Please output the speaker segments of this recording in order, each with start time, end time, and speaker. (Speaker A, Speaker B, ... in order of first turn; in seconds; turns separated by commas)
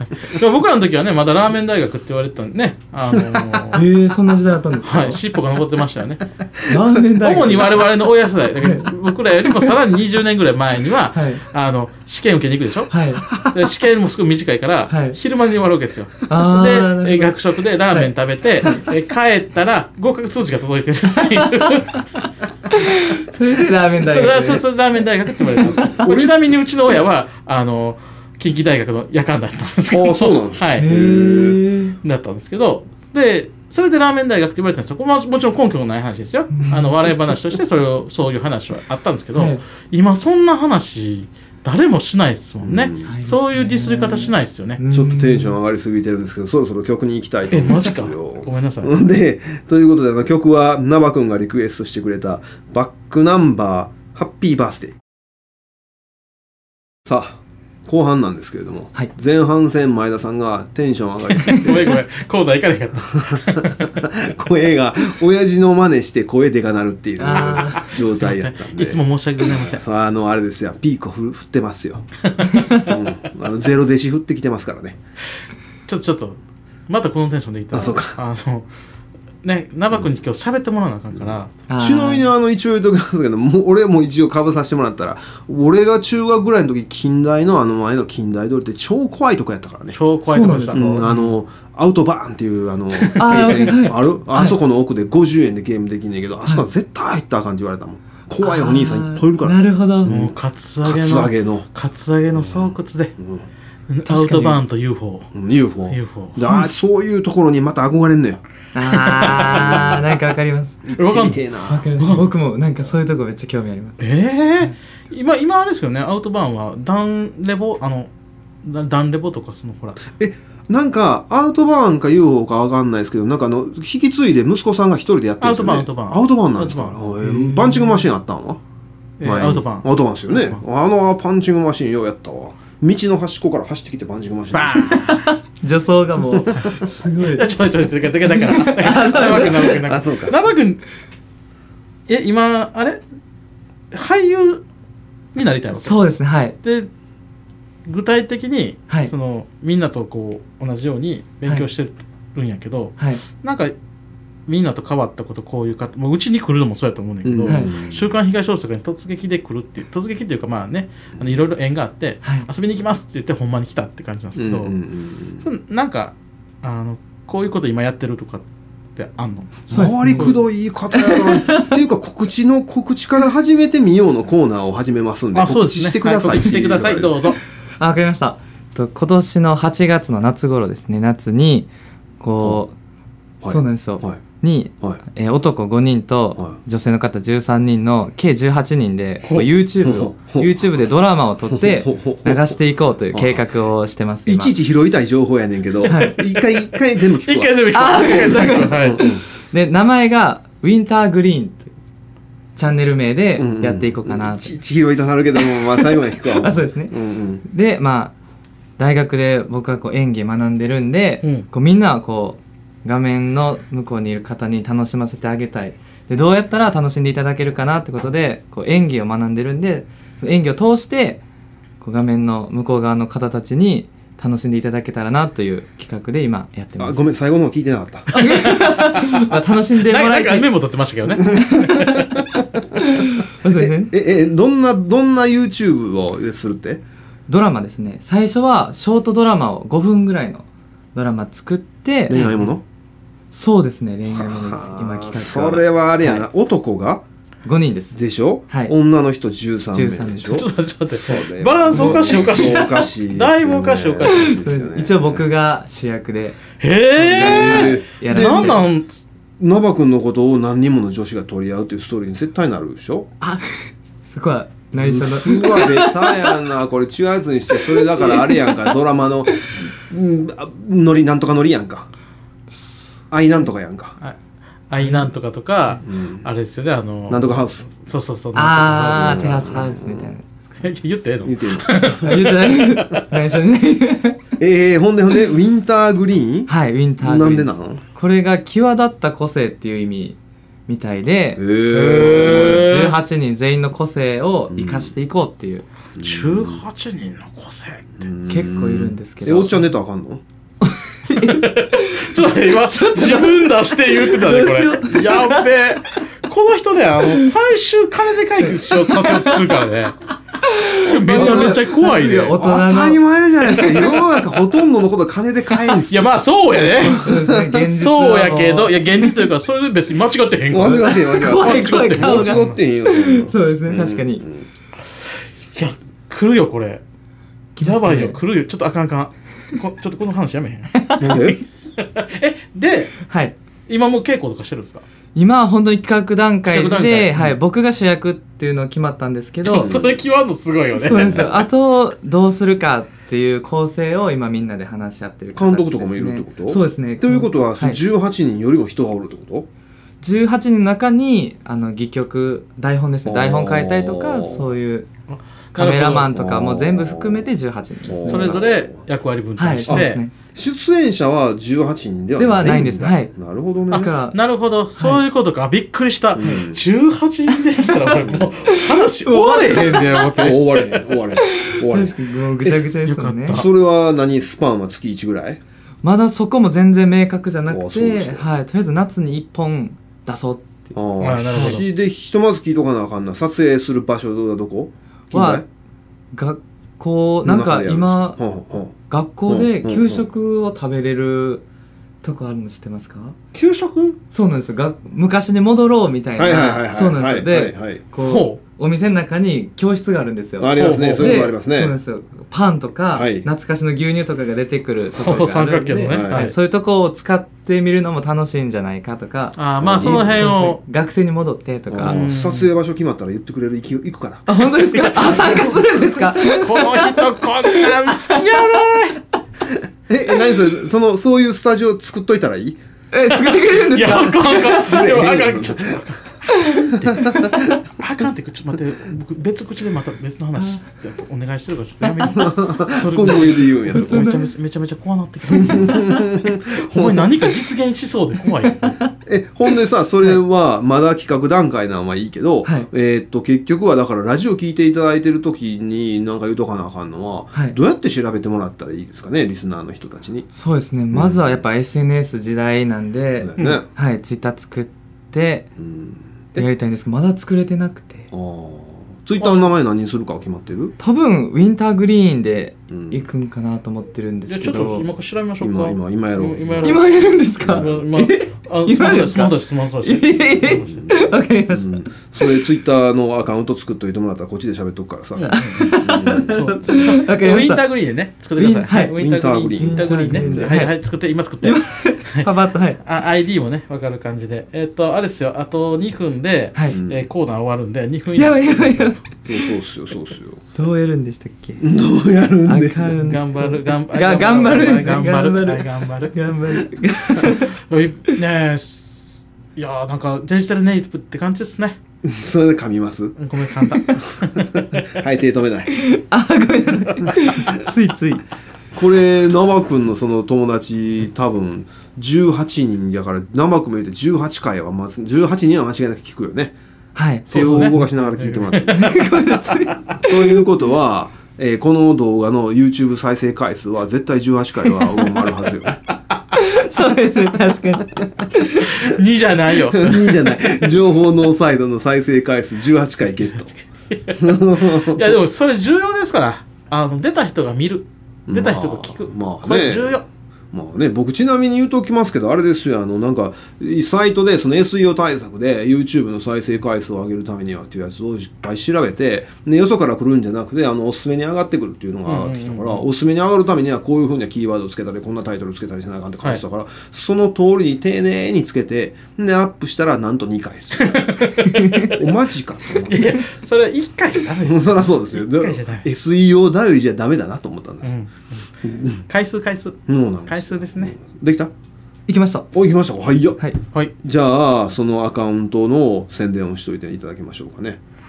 Speaker A: 0.2-3.8, Speaker B: 3.7-5.2, Speaker A: 4.8-6.2, Speaker B: 6.7-7.8, Speaker A: 7.2-22.0, Speaker B: 8.6-8.9, Speaker B: 11.1-11.4, Speaker B: 12.9-13.3, Speaker B: 14.9-15.2, Speaker B: 16.3-17.4, Speaker B: 22.7-24.6, Speaker A: 24.0-30.9, Speaker B: 25.4-25.9, Speaker C: 26.0-26.4, Speaker C: 29.9-31.6, Speaker B: 30.8-32.0, Speaker A: 32.0-44.8, Speaker B: 36.5-37.0, Speaker B: 39.4-39.6, Speaker C: 42.6-43.1, Speaker B: 43.1-45.6, Speaker C: 44.9-55.0, Speaker A: 47.5-48.9, Speaker C: 57.1-61.9, Speaker A: 61.5-63.8, Speaker C: 63.2-72.1, Speaker B: 67.2-67.8, Speaker A: 67.3-69.8, Speaker A: 72.3-72.6, Speaker B: 72.6-72.9, Speaker C: 72.7-75.0, Speaker A: 75.9-76.4, Speaker A: 76.9-78.7, Speaker C: 77.7-78.2, Speaker A: 79.4-81.5, Speaker B: 81.7-82.3, Speaker C: 81.8-90.0, Speaker A: 89.9-91.0, Speaker B: 90.2-91.3, Speaker C: 90.7-101.7, Speaker A: 93.0-93.8, Speaker B: 93.2-94.6, Speaker B: 98.4-100.1, Speaker A: 100.0-103.1, Speaker C: 102.3-103.5, Speaker A: 103.9-105.3, Speaker B: 104.0-104.6, Speaker C: 105.3-108.4, Speaker A: 105.9-106.4, Speaker B: 108.7-110.8, Speaker A: 108.9-110.0, Speaker C: 109.4-110.0, Speaker C: 110.8-111.9, Speaker A: 111.0-111.4, Speaker B: 111.7-114.0, Speaker A: 112.0-112.2, Speaker A: 114.0-118.1, Speaker A: 118.6-120.0, Speaker C: 120.1-128.6, Speaker A: 125.4-127.0, Speaker A: 129.2-130.6, Speaker C: 129.2-134.9, Speaker A: 134.5-135.4, Speaker B: 134.9-137.6, Speaker A: 137.2-140.8, Speaker B: 138.2-139.8, Speaker C: 139.6-140.4, Speaker A: 142.1-143.0, Speaker A: 143.9-144.6, Speaker A: 145.3-146.1, Speaker B: 145.8-146.6, Speaker A: 146.6-146.9, Speaker A: 147.9-153.7, Speaker A: 154.5-164.7, Speaker C: 157.2-158.1, Speaker B: 157.5-157.8, Speaker C: 164.4-165.4, Speaker A: 165.4-168.4, Speaker A: 168.9-170.4, Speaker C: 169.7-177.1, Speaker B: 169.7-170.4, Speaker B: 170.9-171.8, Speaker A: 175.3-177.4, Speaker B: 177.8-182.7, Speaker C: 183.4-184.2, Speaker B: 183.5-194.5, Speaker A: 189.2-189.5, Speaker C: 189.8-190.6, Speaker C: 191.5-192.5, Speaker C: 193.1-193.4, Speaker C: 194.2-199.2, Speaker B: 195.9-196.2, Speaker A: 195.9-196.1, Speaker A: 197.1-199.0, Speaker B: 197.7-201.7, Speaker B: 202.6-204.5, Speaker C: 203.4-207.4, Speaker B: 206.3-206.9, Speaker B: 207.4-208.1, Speaker B: 208.8-221.2, Speaker B: 221.8-227.1, Speaker C: 226.8-228.1, Speaker B: 228.1-230.5, Speaker A: 228.1-229.3, Speaker A: 229.8-232.1, Speaker B: 231.2-232.0, Speaker C: 231.3-232.6, Speaker B: 232.8-233.9, Speaker C: 233.5-236.8, Speaker B: 237.3-242.2, Speaker C: 242.1-242.6, Speaker A: 242.1-242.5, Speaker B: 243.3-246.2, Speaker C: 244.1-247.0, Speaker B: 247.4-248.0, Speaker C: 247.9-255.2, Speaker B: 248.5-248.8, Speaker B: 249.7-250.4, Speaker A: 250.3-254.4, Speaker B: 251.7-252.7, Speaker B: 254.1-258.6, Speaker A: 256.6-259.0, Speaker C: 257.1-258.6, Speaker C: 259.4-263.1, Speaker B: 263.2-266.4, Speaker C: 264.7-271.9, Speaker B: 267.5-268.7, Speaker B: 272.5-272.9, Speaker C: 273.1-274.0, Speaker A: 274.7-279.4, Speaker B: 274.8-275.1, Speaker C: 275.9-276.2, Speaker C: 277.1-277.7, Speaker B: 278.3-280.6, Speaker C: 278.7-280.1, Speaker A: 280.6-282.7, Speaker C: 281.2-282.2, Speaker B: 282.0-284.2, Speaker C: 284.4-287.8, Speaker B: 286.5-291.4, Speaker C: 291.4-292.7, Speaker A: 291.7-293.0, Speaker B: 292.0-295.6, Speaker C: 294.5-294.9, Speaker C: 296.0-296.6, Speaker A: 296.0-298.0, Speaker C: 298.0-300.2, Speaker B: 298.3-299.6, Speaker B: 300.6-305.5, Speaker A: 301.1-309.9, Speaker B: 307.1-307.3, Speaker B: 308.4-309.6, Speaker B: 310.4-314.0, Speaker A: 310.8-312.4, Speaker C: 310.9-311.6, Speaker C: 312.4-316.1, Speaker A: 315.9-322.6, Speaker B: 316.8-319.1, Speaker C: 320.5-324.5, Speaker B: 320.8-324.2, Speaker A: 325.5-326.8, Speaker B: 327.6-328.2, Speaker A: 327.6-333.0, Speaker B: 330.7-331.3, Speaker C: 331.0-331.4, Speaker B: 333.1-333.4, Speaker A: 333.7-334.9, Speaker B: 335.1-339.8, Speaker A: 336.5-337.3, Speaker C: 339.5-340.0, Speaker A: 339.5-341.4, Speaker B: 340.8-347.8, Speaker C: 340.9-341.3, Speaker C: 345.4-349.5, Speaker B: 350.0-354.9, Speaker C: 353.0-354.4, Speaker A: 355.1-356.1, Speaker B: 355.5-358.5, Speaker C: 356.1-357.2, Speaker C: 357.9-358.8, Speaker A: 358.1-360.0, Speaker B: 359.4-360.1, Speaker C: 359.7-363.9, Speaker B: 362.2-363.1, Speaker B: 363.7-364.2, Speaker A: 363.7-370.7, Speaker B: 364.8-365.0, Speaker C: 366.1-366.6, Speaker B: 367.5-370.5, Speaker C: 370.2-371.9, Speaker B: 371.2-373.4, Speaker A: 372.8-373.5, Speaker C: 373.3-375.4, Speaker B: 375.8-380.8, Speaker C: 377.5-378.3, Speaker C: 380.7-385.4, Speaker A: 381.0-381.6, Speaker B: 381.3-381.6, Speaker B: 385.1-385.4, Speaker B: 386.1-388.2, Speaker C: 387.2-388.7, Speaker B: 388.8-391.4, Speaker C: 389.3-390.0, Speaker B: 392.0-393.2, Speaker A: 393.3-394.0, Speaker B: 394.1-412.0, Speaker C: 396.2-397.8, Speaker A: 398.0-398.4, Speaker C: 400.4-401.8, Speaker A: 400.6-401.3, Speaker C: 402.9-403.3, Speaker A: 405.0-406.3, Speaker C: 405.9-406.3, Speaker A: 409.4-410.6, Speaker C: 409.6-410.3, Speaker C: 411.7-414.3, Speaker A: 411.8-412.5, Speaker B: 414.3-418.6, Speaker A: 414.7-419.0, Speaker C: 419.9-422.6, Speaker B: 422.9-424.9, Speaker A: 423.2-436.0, Speaker C: 424.6-425.8, Speaker B: 426.3-427.4, Speaker C: 427.0-427.5, Speaker B: 431.8-432.1, Speaker C: 432.1-434.1, Speaker B: 433.7-434.3, Speaker C: 435.3-437.1, Speaker A: 436.6-438.8, Speaker C: 439.1-450.3, Speaker B: 450.3-455.5, Speaker C: 450.9-451.4, Speaker C: 453.2-453.7, Speaker C: 455.6-456.5, Speaker B: 456.4-458.1, Speaker C: 458.1-460.7, Speaker B: 460.8-464.9, Speaker C: 462.7-463.0, Speaker A: 464.3-471.0, Speaker C: 465.4-467.8, Speaker B: 466.6-472.2, Speaker C: 470.6-476.4, Speaker A: 475.2-475.8, Speaker B: 475.2-477.6, Speaker A: 476.3-488.9, Speaker B: 478.4-479.0, Speaker C: 478.9-480.5, Speaker B: 479.6-480.8, Speaker B: 481.4-482.8, Speaker C: 486.7-487.0, Speaker B: 488.1-489.4, Speaker C: 489.2-490.4, Speaker B: 490.5-491.6, Speaker C: 491.6-493.1, Speaker B: 492.4-497.5, Speaker A: 493.0-496.2, Speaker A: 497.2-499.0, Speaker A: 499.6-501.8, Speaker C: 502.0-503.1, Speaker A: 503.2-504.9, Speaker C: 504.4-505.8, Speaker B: 505.7-508.2, Speaker C: 508.8-516.5, Speaker B: 517.0-517.9, Speaker C: 517.3-518.9, Speaker A: 517.3-518.9, Speaker B: 518.7-520.4, Speaker C: 520.0-525.8, Speaker B: 526.3-528.7, Speaker A: 528.7-530.7, Speaker C: 529.7-533.5, Speaker A: 533.2-540.0, Speaker C: 534.2-535.1, Speaker C: 538.3-540.0, Speaker C: 540.5-561.2, Speaker A: 552.0-552.8, Speaker A: 560.8-562.0, Speaker B: 561.5-561.9, Speaker C: 561.8-563.2, Speaker A: 562.9-565.8, Speaker C: 564.5-567.9, Speaker A: 567.8-568.4, Speaker C: 568.6-569.0, Speaker A: 569.1-570.9, Speaker C: 569.9-571.5, Speaker B: 572.1-572.5, Speaker C: 572.5-573.4, Speaker C: 574.0-577.8